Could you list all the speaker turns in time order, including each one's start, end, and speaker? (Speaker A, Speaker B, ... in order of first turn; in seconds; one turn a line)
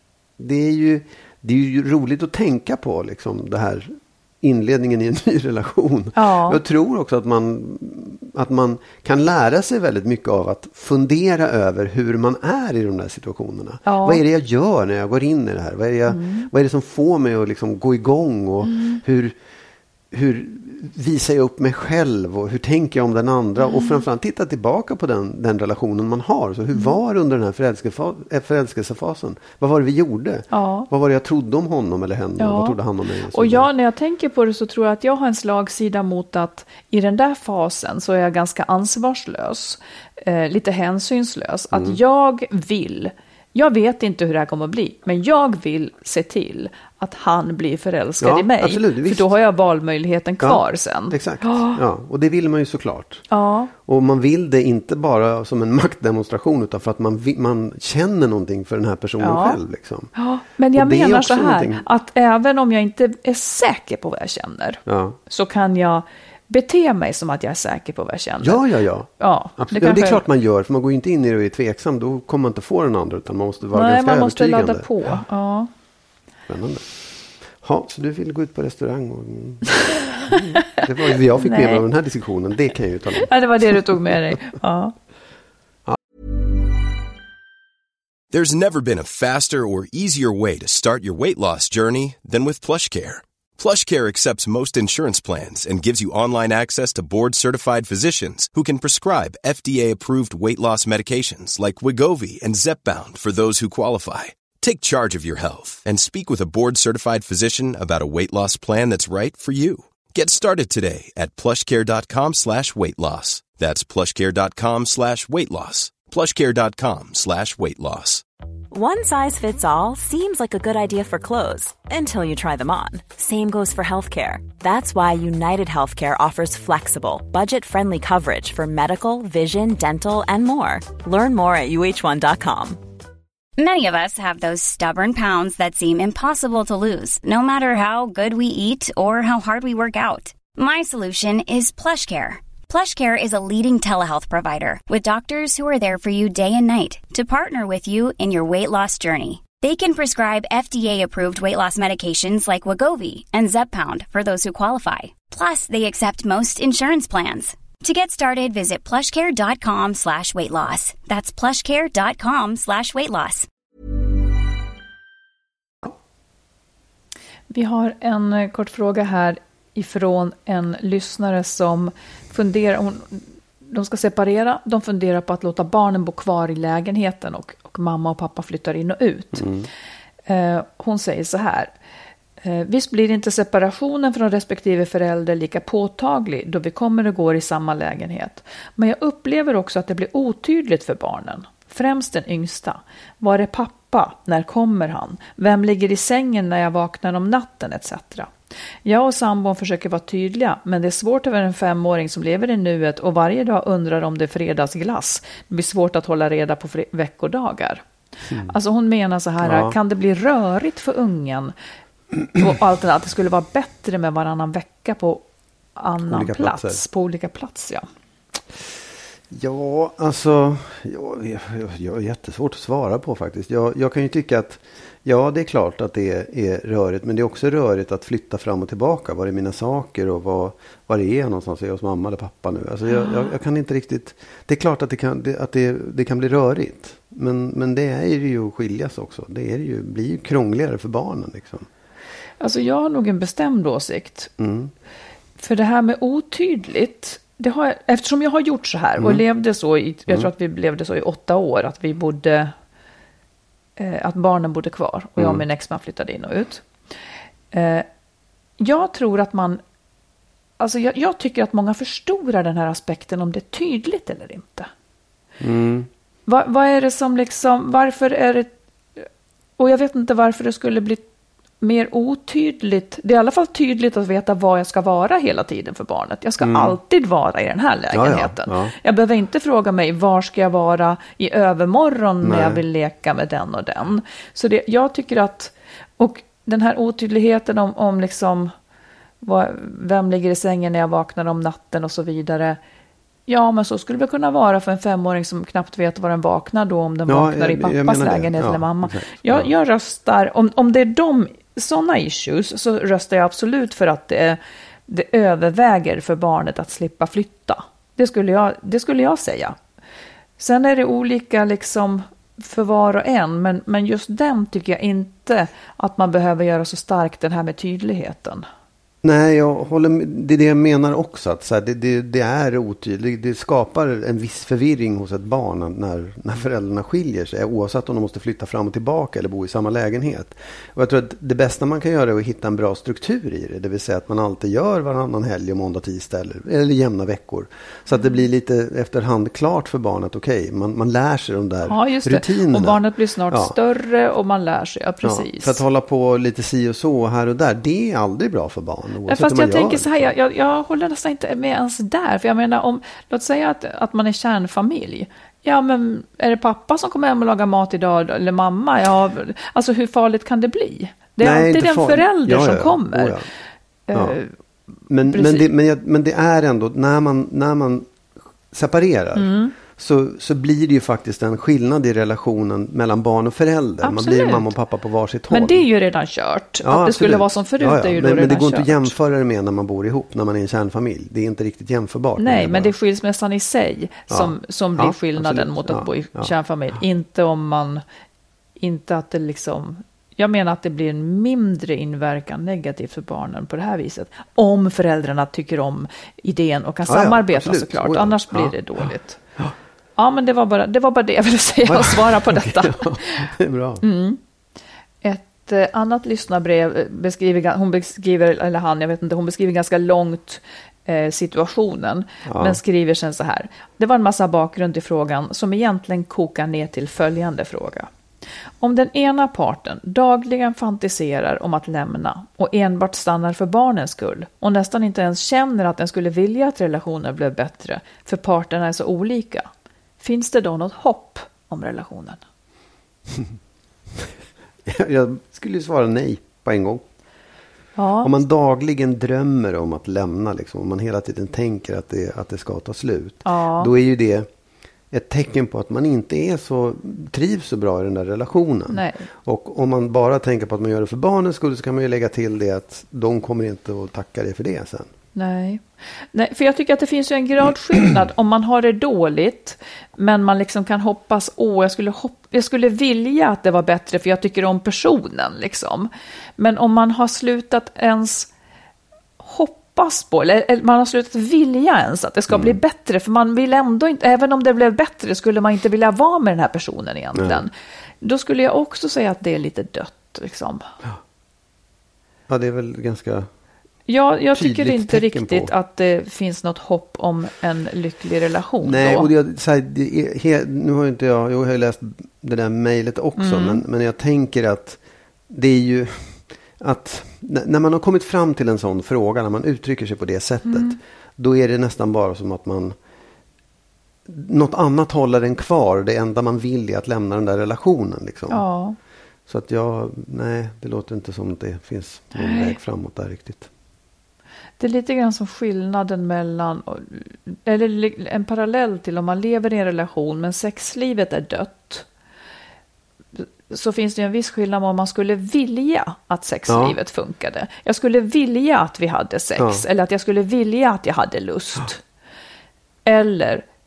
Speaker A: 0.4-19.3
Speaker B: 6.1-6.6
Speaker B: 13.8-14.2
Speaker B: 16.1-16.5
Speaker B: 18.6-19.0
Speaker A: 20.1-33.7
Speaker B: 23.6-24.0
Speaker B: 30.5-30.9
Speaker B: 32.4-32.8
Speaker B: 33.3-51.8
Speaker A: 41.7-42.0
Speaker A: 48.2-49.3
Speaker A: 50.4-53.2
Speaker B: 53.3-53.7
Speaker A: 53.8-60.1
Speaker B: 59.2-59.6
Speaker B: 60.1-68.6
Speaker A: 60.7-61.8
Speaker A: 64.8-65.2
Speaker A: 68.4-74.9
Speaker B: 69.2-70.2
Speaker B: 73.7-75.7
Speaker A: 76.5-76.9
Speaker A: 77.6-84.1
Speaker B: 80.3-81.8
Speaker B: 83.3-84.9
Speaker C: 88.3-118.2
Speaker D: 118.7-132.8
Speaker E: 133.6-163.5
Speaker B: 167.5-179.5
Speaker A: 179.3-179.7
Speaker B: 180.3-181.7
Speaker B: 182.4-198.3
Speaker B: 198.8-207.8
Speaker B: 208.4-211.5
Speaker A: 209.4-209.7
Speaker B: 212.3-215.2
Speaker B: 215.8-217.8
Speaker A: 216.1-216.8
Speaker A: 219.3-241.7
Speaker B: 232.9-233.3
Speaker B: 242.4-244.3
Speaker A: 244.4-244.7
Speaker B: 245.4-252.5
Speaker B: 253.8-256.6
Speaker B: 257.5-257.9
Speaker B: 258.6-259.6
Speaker B: 260.6-264.7
Speaker A: 265.4-265.9
Speaker B: 266.3-269.0
Speaker B: 269.6-271.0
Speaker B: 271.6-288.5
Speaker A: 276.4-276.8
Speaker A: 277.9-278.7
Speaker A: 282.2-282.6
Speaker B: 289.2-292.6
Speaker B: 293.3-309.6
Speaker A: 297.1-299.5
Speaker B: 310.4-318.4
Speaker A: 319.0-343.5
Speaker B: 341.6-345.6
Speaker A: 345.0-350.1
Speaker B: 349.1-363.1
Speaker A: 361.2-363.2
Speaker B: 363.9-364.3
Speaker A: 363.9-364.2
Speaker A: 364.9-367.9
Speaker B: 365.0-365.5
Speaker A: 368.5-375.6
Speaker B: 369.1-369.5
Speaker B: 373.8-374.5
Speaker B: 375.3-378.9
Speaker A: 376.6-382.7
Speaker B: 382.2-387.8
Speaker A: 384.1-386.3
Speaker B: 388.6-399.2
Speaker A: 396.9-398.5
Speaker B: 400.0-403.3
Speaker A: 401.6-403.8
Speaker B: 403.8-404.2
Speaker B: 405.0-417.9
Speaker A: 412.2-412.6
Speaker B: 418.6-429.5
Speaker B: 430.0-432.2
Speaker A: 434.6-436.8
Speaker B: 437.8-438.1
Speaker A: 438.0-444.3
Speaker B: 443.2-443.7
Speaker A: 444.9-454.9
Speaker B: 448.7-449.1
Speaker B: 455.1-455.6
Speaker B: 456.1-468.3
Speaker B: 469.2-477.5
Speaker A: 472.3-472.6
Speaker A: 477.1-477.4
Speaker B: 478.0-480.6
Speaker A: 482.3-483.3
Speaker B: 483.9-489.1
Speaker A: 484.3-485.5
Speaker A: 488.6-502.8
Speaker B: 493.2-493.6
Speaker B: 500.4-500.8
Speaker A: 504.1-508.4
Speaker B: 508.3-508.8
Speaker A: 509.3-513.5
Speaker B: 512.1-512.6
Speaker B: 514.6-521.9
Speaker B: 523.2-531.8
Speaker A: 526.5-526.8
Speaker A: 529.4-529.6
Speaker B: 532.9-533.4